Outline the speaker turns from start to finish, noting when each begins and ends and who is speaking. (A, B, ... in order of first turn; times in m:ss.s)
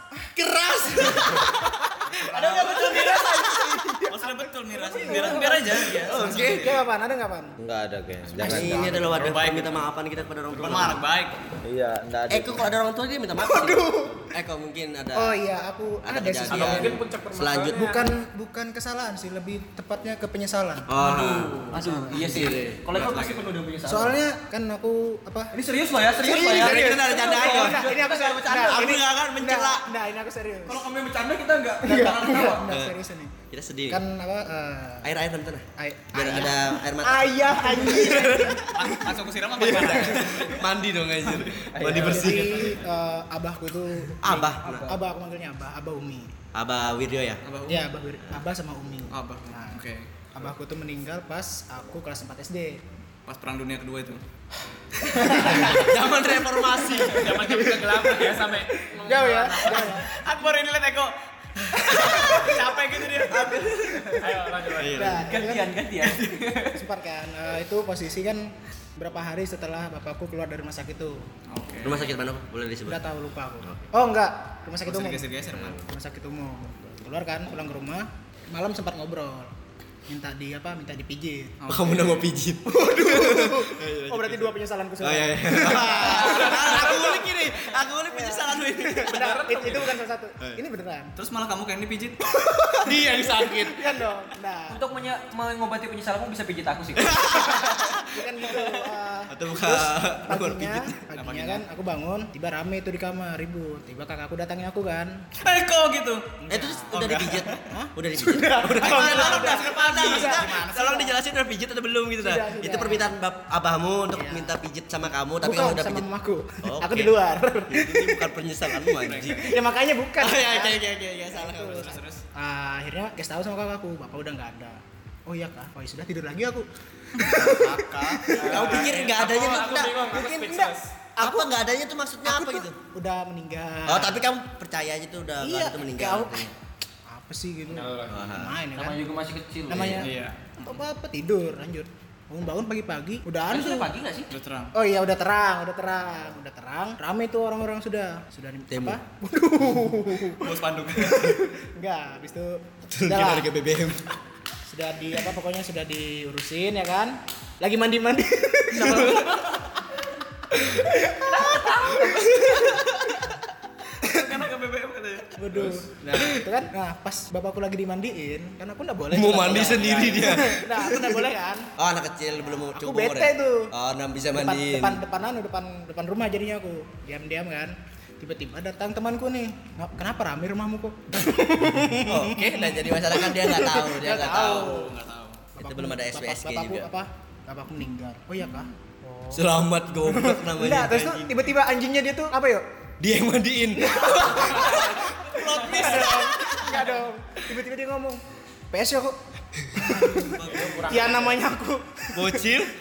0:00.4-0:04.0 A
0:00.9-0:07.6 B
0:02.3-0:03.6 C
0:02.3-0:03.2 D
0:04.1-0:06.8 D
0:05.1-0:06.8 A
0:07.6-0:09.5 E
0:08.2-0:09.2 B
0:08.4-0:11.0 A
0:09.2-0:09.9 D
0:10.5-0:11.3 D
0:11.6-0:12.7 E
0:12.3-0:15.4 A
0:13.4-0:14.3 B
0:15.1-0:17.0 B
0:16.0-0:17.9 A
0:16.5-0:18.1 F
0:17.7-0:20.9 B
0:20.9-0:22.8 A
0:21.0-0:23.5 D
0:21.7-0:24.2 C
0:23.9-0:25.5 B
0:25.5-0:28.9 C
0:26.2-0:27.9 A
0:26.3-0:30.8 B
0:28.4-0:29.9 A
0:30.6-0:32.7 C
0:31.8-0:33.3 B
0:32.7-0:33.0 A
0:33.5-0:34.0 A
0:33.9-0:35.1 B
0:35.0-0:39.0 A
0:35.8-0:38.9 B
0:38.7-0:40.6 D
0:39.6-0:42.8 A
0:41.7-0:42.8 C
0:41.9-0:44.2 B
0:44.2-0:44.9 A
0:44.2-0:45.0 C
0:44.8-0:46.3 B
0:46.5-0:47.4 A
0:47.4-0:47.9 D
0:47.7-0:49.8 B
0:49.1-0:50.1 D
0:50.3-0:52.8 B
0:53.2-0:54.2 D
0:55.0-0:58.2 A
0:55.3-0:55.8 B
0:57.0-1:00.0 F
0:59.1-1:00.0 B
0:59.7-1:01.1 D
1:01.7-1:02.6 A
1:01.8-1:03.4 D
1:01.9-1:02.3 B
1:03.2-1:05.2 A
1:04.2-1:05.3 F
1:04.9-1:05.7 B
1:05.0-1:06.8 C
1:06.7-1:11.2 B
1:11.5-1:12.1 D
1:11.8-1:13.0 A
1:12.9-1:19.5 B
1:14.8-1:15.8 D
1:20.1-1:21.6 B
1:21.6-1:22.3 D
1:21.7-1:29.3 A
1:22.6-1:27.4 B
1:26.0-1:26.7 C
1:28.1-1:31.1 B
1:29.1-1:30.0 F
1:31.2-1:32.2 D
1:32.3-1:33.7 A
1:32.9-1:33.7 E
1:33.7-1:34.8 B
1:34.7-1:37.3 C
1:37.0-1:38.5 A
1:37.3-1:45.3 B
1:39.3-1:41.0 A
1:41.2-1:41.6 D
1:45.4-1:47.6 D
1:46.5-1:56.1 A
1:47.7-1:51.2 B
1:48.8-1:50.8 D
1:52.2-1:53.1 B
1:54.1-1:54.5 B
1:55.4-1:58.3 B
1:56.6-1:57.1 A
1:57.7-1:59.5 A
1:59.0-1:59.4 D
1:59.4-2:08.8 B
2:00.2-2:02.0 A
2:01.7-2:02.2 D
2:07.5-2:09.2 D
2:08.3-2:10.5 A
2:08.4-2:11.0 F
2:11.2-2:12.8 A
2:11.2-2:11.5 B
2:12.2-2:14.2 B
2:13.9-2:16.5 A
2:15.4-2:16.5 B
2:17.1-2:19.0 B
2:17.7-2:18.3 F
2:18.1-2:18.6 A
2:18.7-2:20.0 C
2:19.7-2:23.9 B
2:20.0-2:20.8 D
2:23.5-2:24.3 C
2:24.3-2:24.7 D
2:24.7-2:33.5 B
2:28.7-2:29.0 A
2:30.4-2:31.4 D
2:32.9-2:34.1 A
2:34.7-2:39.2 B
2:38.7-2:39.5 A
2:38.9-2:39.4 C
2:40.5-2:40.8 A
2:41.2-2:41.6 B
2:41.2-2:42.4 C
2:41.9-2:43.2 A
2:44.0-2:46.4 D
2:45.4-2:51.7 B
2:49.1-2:55.0 A
2:49.6-2:50.3 F
2:52.6-2:53.7 B
2:54.3-3:04.9 B
3:02.0-3:04.8 A
3:04.3-3:05.4 D
3:05.6-3:08.7 B
3:05.6-3:06.9 A
3:09.0-3:09.4 C
3:09.3-3:11.3 A
3:10.1-3:12.6 B
3:13.0-3:16.9 A
3:13.8-3:18.2 B
3:14.2-3:16.8 D
3:18.7-3:19.2 B
3:19.7-3:22.4 B
3:19.8-3:20.8 A
3:20.2-3:21.1 D
3:20.5-3:21.5 F
3:22.1-3:22.7 A